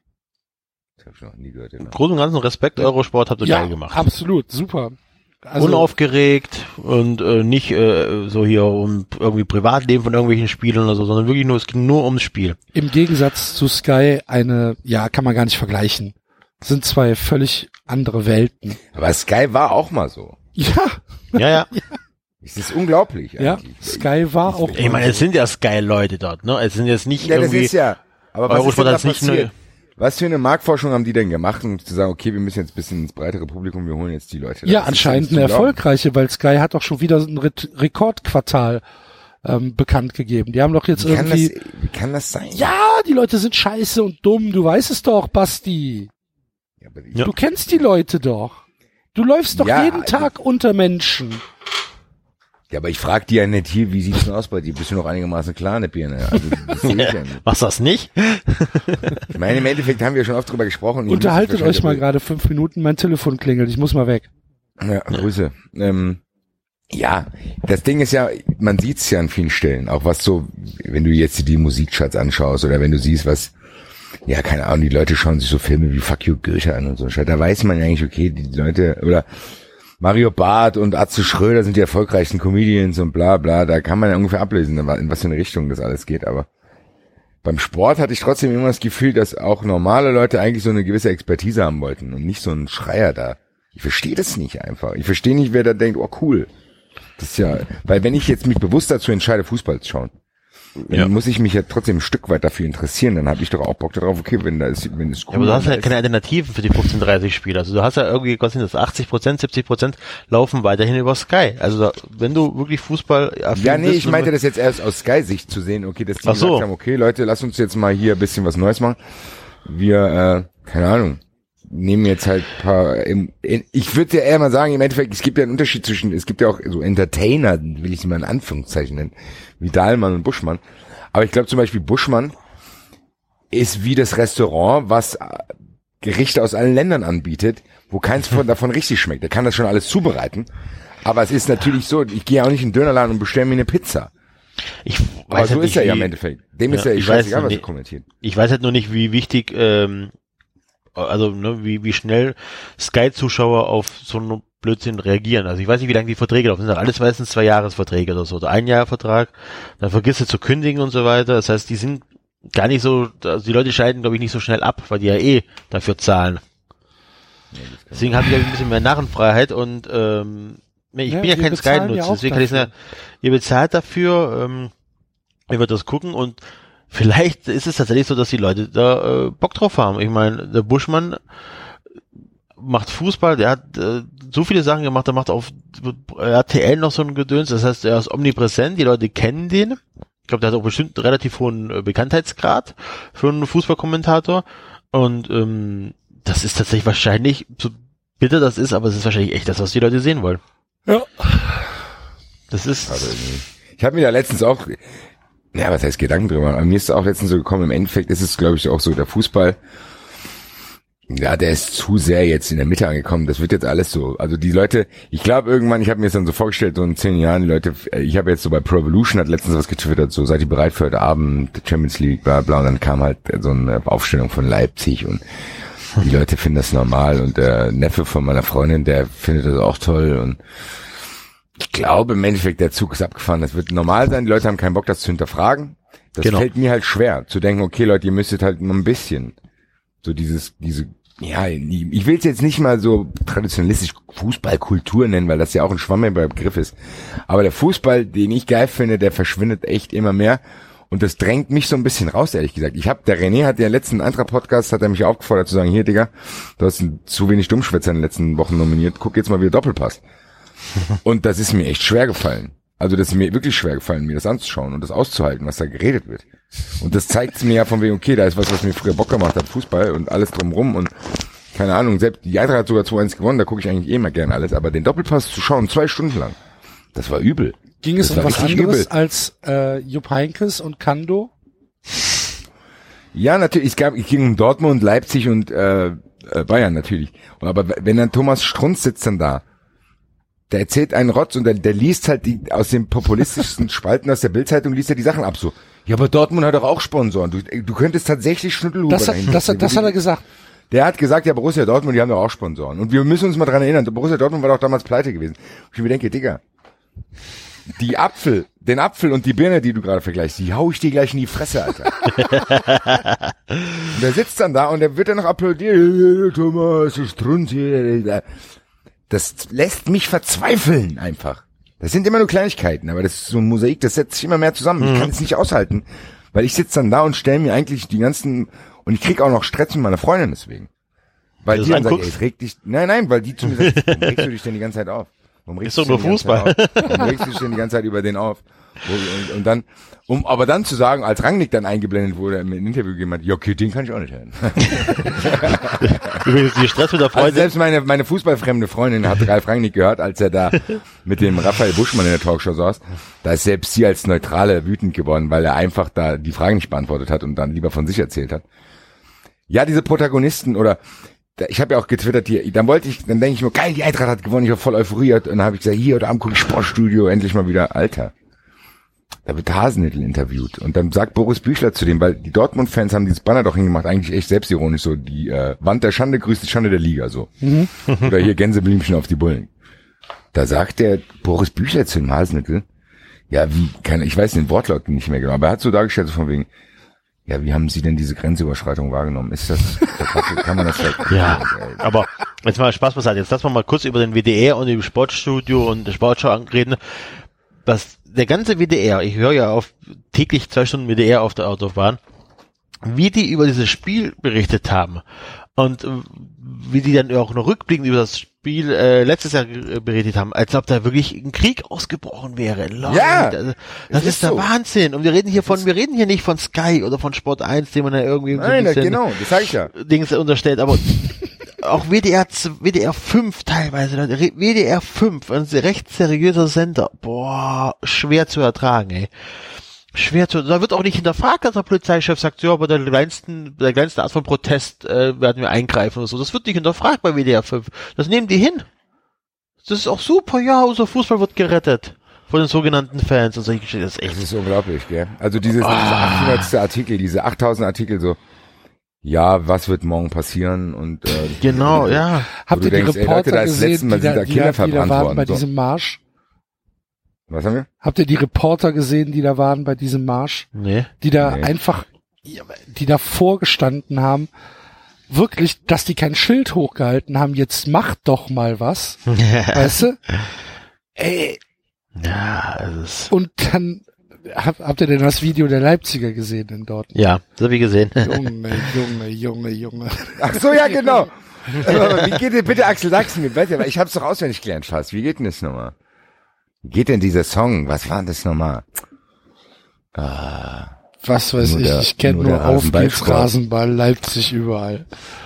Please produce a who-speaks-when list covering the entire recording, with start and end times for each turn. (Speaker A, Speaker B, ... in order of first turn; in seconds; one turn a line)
Speaker A: 1.0-2.0
Speaker B: 1.8-4.1
Speaker C: 3.4-5.9
Speaker B: 5.6-12.6
Speaker C: 12.7-18.8
Speaker A: 18.9-20.4
Speaker C: 20.6-21.8
Speaker B: 21.4-21.7
Speaker A: 22.4-25.0
Speaker C: 23.4-25.2
Speaker B: 24.8-27.7
Speaker A: 27.2-35.8
Speaker B: 28.5-29.5
Speaker C: 34.6-38.8
Speaker C: 39.4-41.5
Speaker A: 41.0-42.7
Speaker C: 42.5-46.1
Speaker A: 46.8-47.3
Speaker C: 47.2-51.4
Speaker A: 49.5-50.3
Speaker A: 52.7-57.4
Speaker B: 56.8-59.3
Speaker A: 59.3-62.0
Speaker C: 61.1-64.3
Speaker A: 64.8-66.2
Speaker A: 66.9-73.5
Speaker A: 74.3-79.3
Speaker A: 80.0-86.5
Speaker A: 87.4-96.5
Speaker A: 97.2-100.1
Speaker A: 100.8-105.9
Speaker B: 105.3-114.3
Speaker A: 113.5-119.0
Speaker B: 116.2-116.7
Speaker A: 119.6-132.4
Speaker A: 133.5-140.5
Speaker A: 141.0-144.1
Speaker B: 144.8-146.1
Speaker A: 145.3-148.1
Speaker B: 146.7-147.7
Speaker B: 148.2-150.1
Speaker B: 150.9-166.4
Speaker A: 167.5-168.3
Speaker B: 167.9-174.7
Speaker C: 171.1-172.7
Speaker B: 175.5-176.4
Speaker B: 176.9-181.2
Speaker B: 182.6-200.4
Speaker C: 200.9-201.7
Speaker B: 202.5-203.2
Speaker A: 202.9-204.9
Speaker A: 205.5-209.6
Speaker A: 211.1-225.2
Speaker A: 226.0-230.4
Speaker A: 231.6-239.4
Speaker A: 240.0-246.8
Speaker A: 247.3-260.0
Speaker A: 261.0-266.3
Speaker A: 266.8-276.4
Speaker A: 276.9-278.9
Speaker C: 277.8-281.3
Speaker A: 283.1-289.4
Speaker A: 290.5-299.9
Speaker C: 298.9-300.2
Speaker A: 300.7-306.4
Speaker A: 307.7-312.0
Speaker B: 312.1-313.9
Speaker A: 313.9-318.3
Speaker A: 319.1-330.7
Speaker B: 324.8-325.1
Speaker A: 331.4-346.2
Speaker B: 331.5-332.1
Speaker B: 333.4-334.2
Speaker B: 335.6-337.4
Speaker B: 344.7-347.5
Speaker A: 347.1-358.4
Speaker A: 359.5-360.8
Speaker A: 361.4-368.1
Speaker A: 369.3-379.5
Speaker C: 377.4-377.7
Speaker A: 380.3-382.6
Speaker A: 383.3-386.5
Speaker A: 387.3-391.9
Speaker B: 391.1-402.0
Speaker B: 402.8-405.0
Speaker B: 405.6-429.1
Speaker A: 412.9-413.4
Speaker A: 413.9-414.5
Speaker A: 415.4-415.6
Speaker A: 418.3-419.7
Speaker B: 429.9-438.7
Speaker B: 439.6-444.2
Speaker A: 444.1-448.2
Speaker B: 445.6-446.5
Speaker A: 449.0-455.4
Speaker B: 451.4-452.3
Speaker C: 452.4-456.0
Speaker A: 457.3-457.7
Speaker C: 457.8-460.5
Speaker B: 460.6-460.9
Speaker C: 461.0-464.3
Speaker A: 461.2-461.5
Speaker C: 465.1-469.0
Speaker B: 469.1-470.3
Speaker C: 469.5-470.0
Speaker C: 471.0-471.4
Speaker B: 472.0-473.1
Speaker C: 473.1-476.9
Speaker B: 476.9-478.2
Speaker C: 478.0-480.9
Speaker A: 480.2-485.7
Speaker A: 486.6-488.7
Speaker A: 489.9-490.7
Speaker C: 491.0-494.9
Speaker A: 491.4-493.3